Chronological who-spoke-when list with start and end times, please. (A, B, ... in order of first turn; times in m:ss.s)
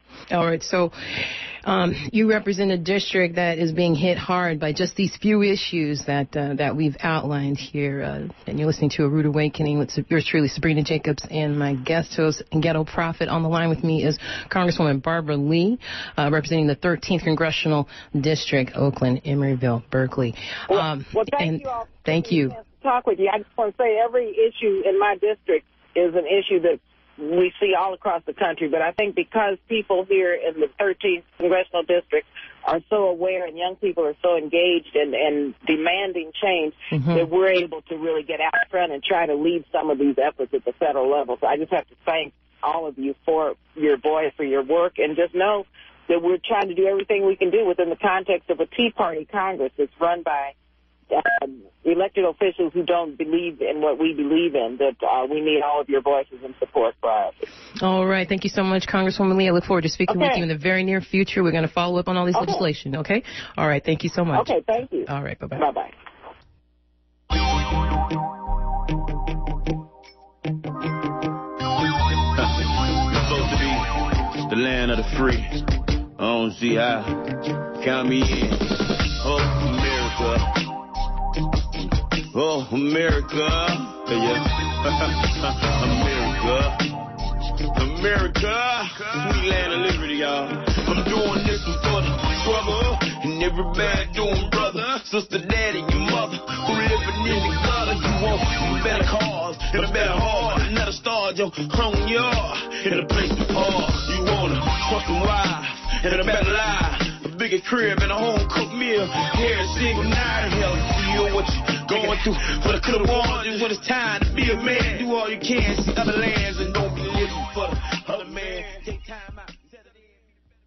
0:00.3-0:22.6 A
0:20.7-0:50.5 B
0:36.9-0:37.3 A
0:51.1-0:57.4 B
0:57.8-1:04.5 A
1:00.1-1:00.4 B
1:02.3-1:02.6 B
1:04.3-1:05.9 B
1:05.1-1:05.6 A
1:12.3-1:15.7 C
1:16.2-1:17.2 C
1:17.8-1:20.6 C
1:22.3-1:26.9 C
1:27.7-2:00.0 C